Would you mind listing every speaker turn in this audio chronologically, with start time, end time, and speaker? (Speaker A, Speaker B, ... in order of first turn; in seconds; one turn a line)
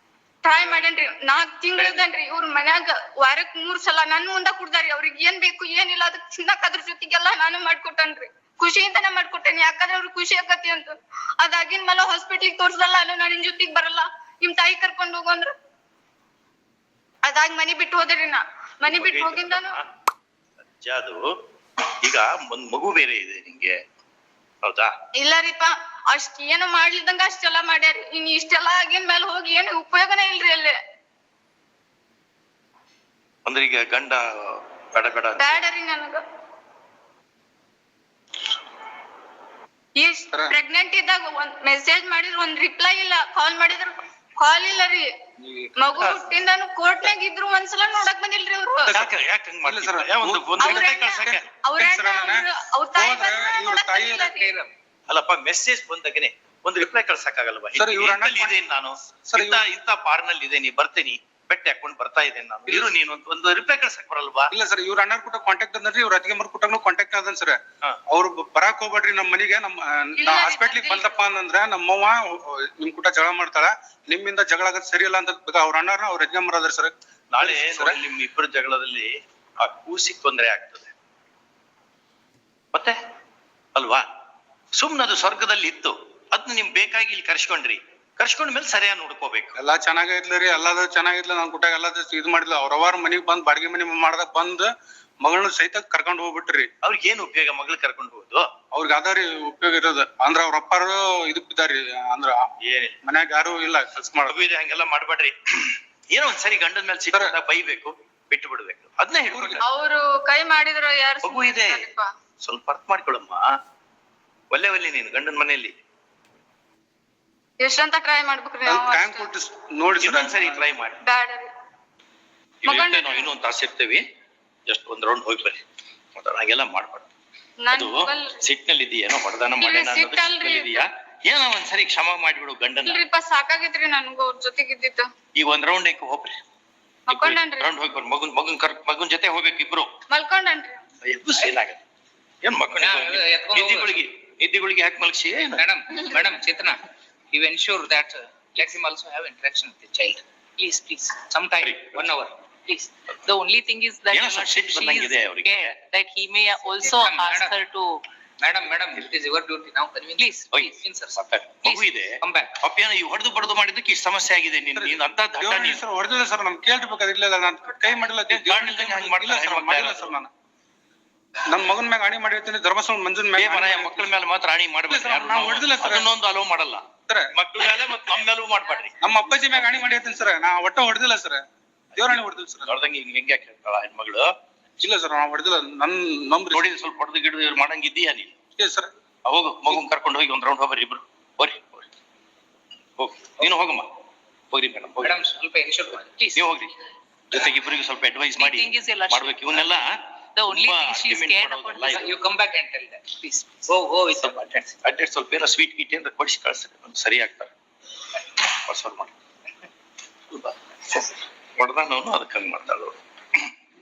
Speaker A: 0.4-15.5
Speaker B: 0.6-0.9
Speaker B: 1.8-2.1
Speaker A: 17.2-19.8
Speaker C: 18.9-19.8
Speaker C: 20.6-21.3
Speaker C: 21.9-23.7
Speaker C: 24.6-24.9
Speaker A: 25.2-30.8
Speaker C: 33.5-35.6
Speaker A: 35.4-36.2
Speaker A: 40.0-45.1
Speaker D: 40.3-40.6
Speaker B: 45.5-45.9
Speaker A: 45.8-48.9
Speaker C: 48.9-51.4
Speaker D: 49.6-54.3
Speaker A: 50.6-54.5
Speaker B: 54.4-54.7
Speaker C: 55.1-64.5
Speaker D: 57.8-58.6
Speaker D: 59.3-59.6
Speaker D: 62.7-62.9
Speaker D: 64.5-67.6
Speaker D: 68.1-78.0
Speaker A: 70.2-71.2
Speaker C: 77.3-80.9
Speaker C: 83.8-84.0
Speaker C: 84.8-89.6
Speaker D: 89.6-94.7
Speaker D: 95.2-96.7
Speaker C: 96.8-98.5
Speaker D: 98.7-102.4
Speaker C: 102.6-103.0
Speaker D: 103.0-104.4
Speaker C: 104.3-109.6
Speaker D: 109.3-109.6
Speaker A: 109.6-112.1
Speaker C: 111.2-111.9
Speaker C: 112.4-113.5
Speaker C: 114.5-115.8
Speaker A: 117.6-119.3
Speaker D: 118.7-120.6
Speaker C: 120.0-121.0
Speaker A: 121.0-121.5
Speaker C: 122.6-124.0
Speaker A: 122.7-123.3
Speaker C: 124.7-125.6
Speaker C: 126.2-127.1
Speaker A: 127.6-128.4
Speaker C: 127.7-133.0
Speaker A: 129.6-130.8
Speaker A: 132.9-135.1
Speaker C: 135.4-136.4
Speaker A: 137.1-137.7
Speaker C: 137.1-139.9
Speaker A: 140.1-140.8
Speaker C: 141.0-141.8
Speaker C: 142.4-145.7
Speaker B: 142.8-144.0
Speaker B: 145.6-146.8
Speaker B: 147.3-154.0
Speaker C: 151.6-152.2
Speaker E: 153.5-158.0
Speaker C: 154.1-155.8
Speaker B: 156.8-157.7
Speaker B: 158.4-162.5
Speaker C: 160.5-165.8
Speaker D: 164.8-170.3
Speaker C: 168.3-170.1
Speaker D: 171.5-174.1
Speaker C: 173.4-179.8
Speaker D: 174.9-176.1
Speaker D: 179.0-181.4
Speaker C: 181.9-184.3
Speaker D: 182.0-182.8
Speaker D: 184.8-186.7
Speaker C: 186.5-188.3
Speaker D: 188.6-188.9
Speaker C: 189.2-191.8
Speaker C: 193.0-193.9
Speaker C: 194.5-195.2
Speaker B: 195.0-196.5
Speaker C: 196.3-196.8
Speaker C: 197.3-202.2
Speaker B: 198.4-199.6
Speaker E: 198.8-199.3
Speaker B: 200.4-201.2
Speaker E: 200.4-201.9
Speaker B: 201.8-204.8
Speaker C: 204.8-207.5
Speaker C: 208.3-209.1
Speaker C: 210.3-213.5